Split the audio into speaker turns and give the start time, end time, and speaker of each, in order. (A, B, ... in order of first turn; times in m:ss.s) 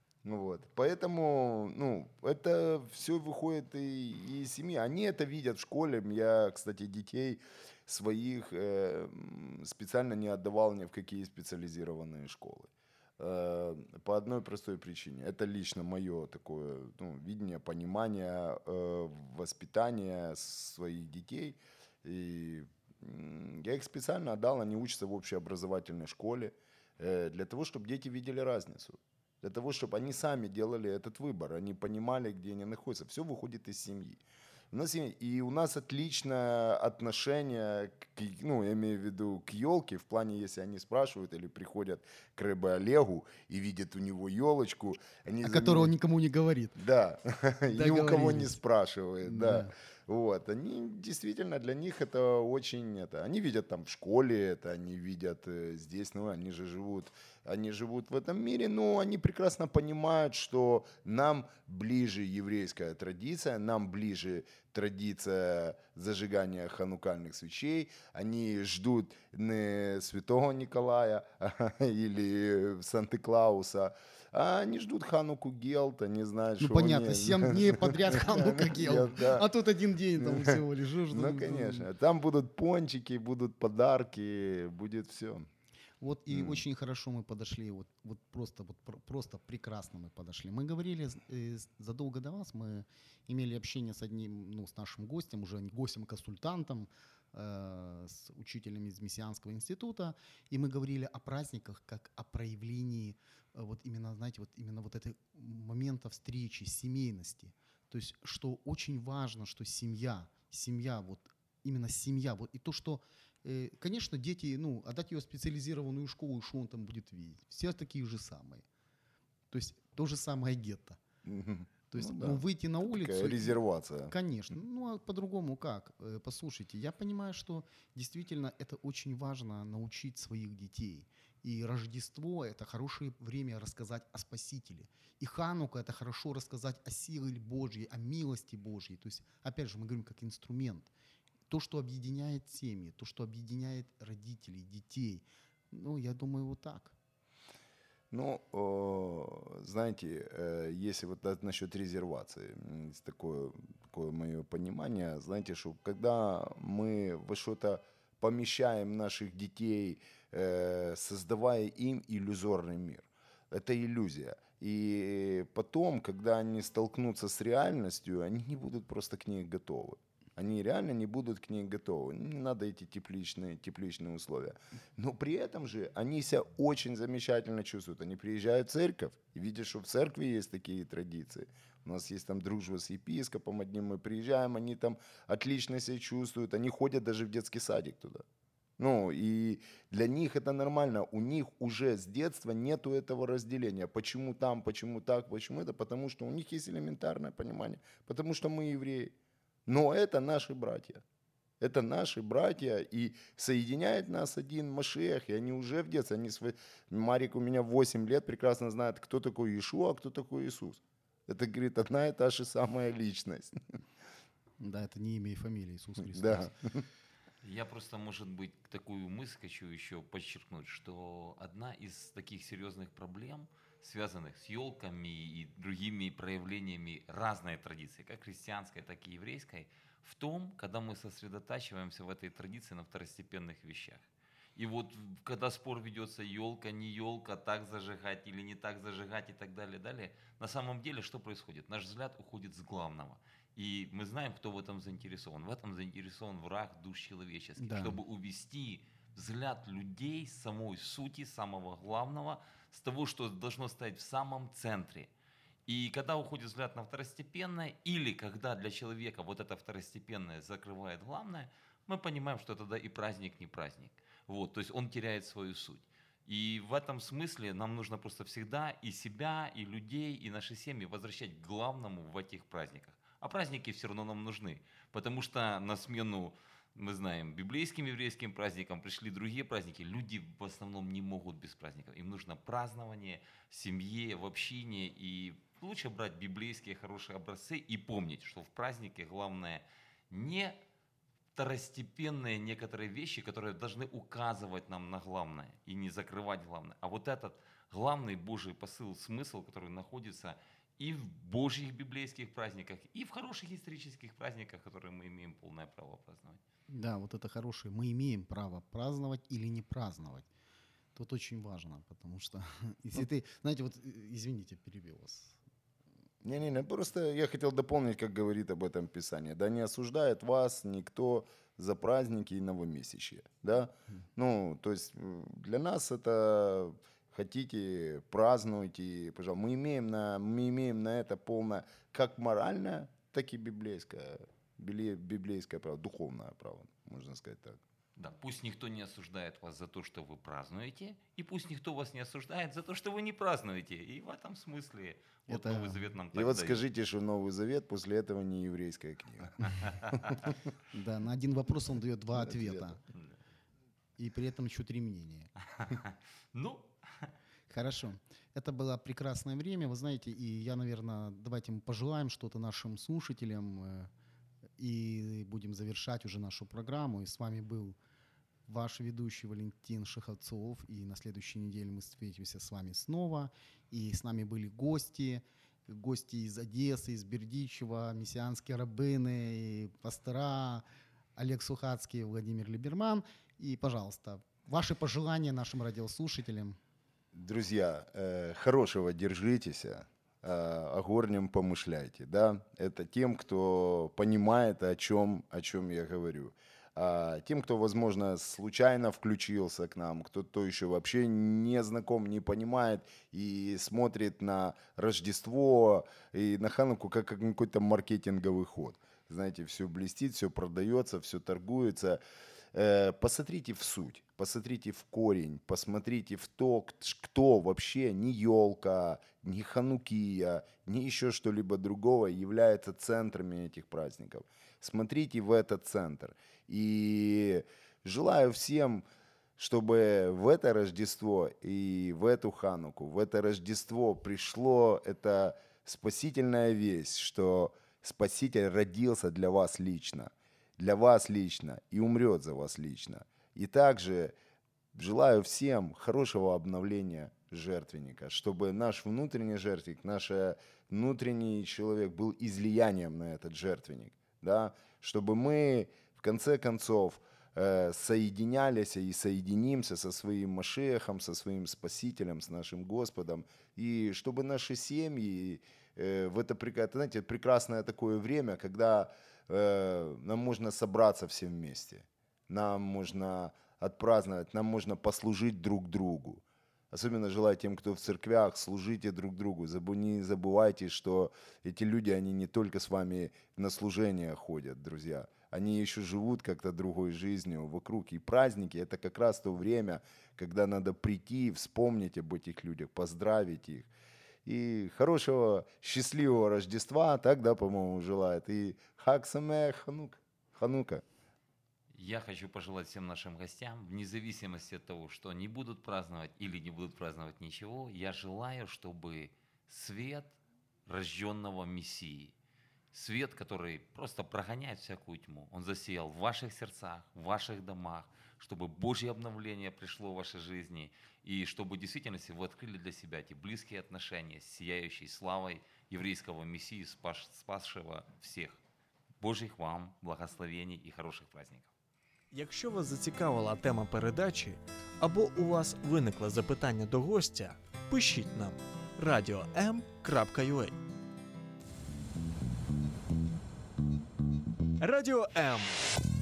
0:00.2-0:34.2 A
0:34.7-0:45.9 A
0:45.4-0:46.8 B
0:46.8-1:19.5 A
0:47.7-0:48.6 B
0:49.2-0:49.7 B
1:16.6-1:21.9 B
1:20.2-1:25.5 A
1:26.0-1:58.6 B
1:26.3-1:26.6 A
1:59.5-2:01.0 B
2:01.2-2:04.1 A
2:01.9-2:20.9 B
2:21.5-2:26.9 B
2:28.1-3:08.2 A
3:08.8-3:19.1 A
3:19.7-3:21.0 A
3:21.6-3:33.6 A
3:34.6-3:36.5 B
3:36.0-3:36.8 A
3:37.4-3:54.0 C
3:54.6-4:15.1 C
4:07.6-4:08.0 B
4:15.7-4:50.6 C
4:51.4-5:06.4 C
5:06.7-5:10.3 B
5:11.0-5:15.4 B
5:16.2-5:37.6 A
5:38.0-5:46.6 C
5:45.3-5:45.8 B
5:46.1-5:50.4 A
5:50.7-5:52.8 B
5:52.1-5:52.8 A
5:54.0-5:55.3 B
5:55.6-5:57.1 C
5:57.5-6:03.9 B
6:04.6-6:07.8 B
6:08.5-6:20.6 B
6:21.2-6:26.6 B
6:27.1-6:52.0 A
6:52.5-7:08.8 A
7:09.4-7:24.1 A
7:24.7-8:13.7 A
8:14.2-8:20.8 A
8:21.7-8:32.1 C
8:32.7-8:48.4 C
8:49.0-8:51.5 C
8:52.1-9:00.6 D
9:04.6-9:05.7 D